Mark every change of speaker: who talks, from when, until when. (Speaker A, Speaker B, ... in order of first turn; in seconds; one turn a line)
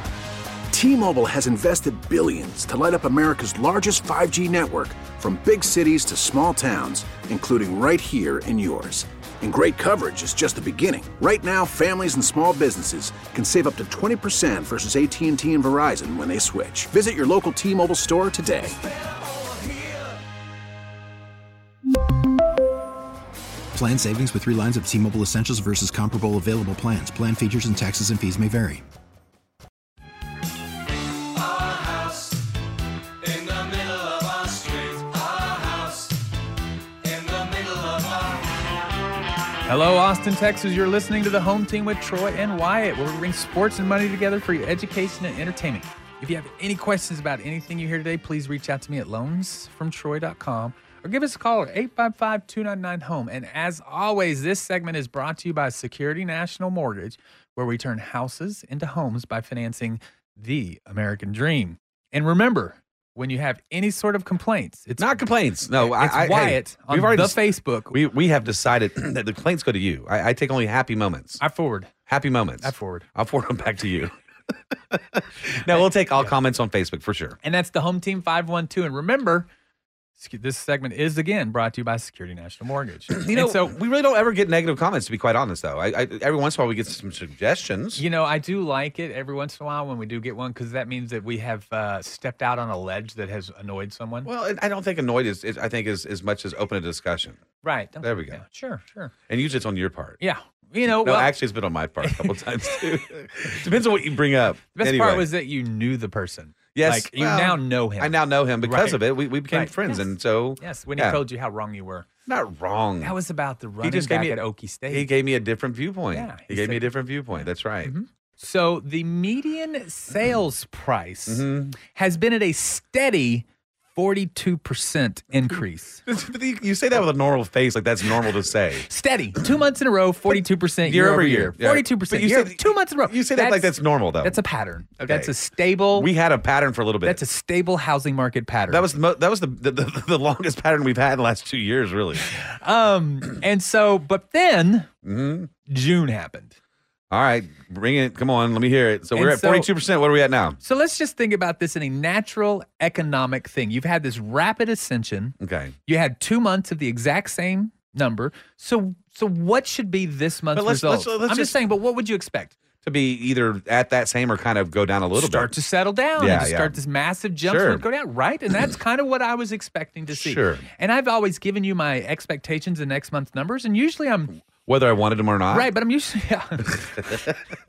Speaker A: 0.7-18.8
Speaker B: 23.7-28.9
Speaker C: 31.4-32.3
Speaker C: 33.2-36.1
Speaker C: 37.1-38.3
Speaker D: 39.7-65.2
Speaker E: 65.0-71.4
Speaker D: 65.8-68.0
Speaker D: 71.4-71.9
Speaker E: 72.1-74.1
Speaker D: 72.6-73.1
Speaker E: 74.7-77.4
Speaker D: 77.4-79.5
Speaker D: 80.2-83.8
Speaker E: 83.1-88.0
Speaker D: 88.0-94.3
Speaker E: 94.2-97.4
Speaker D: 97.6-99.1
Speaker E: 98.0-98.4
Speaker E: 99.3-100.2
Speaker D: 100.2-101.3
Speaker E: 100.9-105.3
Speaker D: 102.0-102.8
Speaker D: 104.7-110.0
Speaker E: 106.7-111.2
Speaker D: 110.6-112.1
Speaker E: 112.3-113.2
Speaker D: 113.0-115.1
Speaker E: 113.8-117.9
Speaker D: 116.1-126.0
Speaker E: 121.3-121.8
Speaker E: 126.1-128.9
Speaker D: 128.8-136.1
Speaker E: 130.3-134.4
Speaker E: 135.0-135.3
Speaker E: 135.9-137.2
Speaker D: 137.0-138.9
Speaker E: 138.7-142.3
Speaker D: 142.3-144.9
Speaker E: 145.0-145.5
Speaker D: 145.7-146.6
Speaker E: 147.1-150.6
Speaker D: 149.2-149.7
Speaker D: 150.6-155.4
Speaker E: 155.4-155.8
Speaker D: 155.9-162.6
Speaker E: 160.5-161.6
Speaker E: 162.8-165.5
Speaker D: 165.1-174.3
Speaker E: 166.2-166.8
Speaker E: 167.4-167.8
Speaker E: 170.1-170.7
Speaker E: 174.6-175.7
Speaker D: 175.5-177.2
Speaker E: 176.7-177.4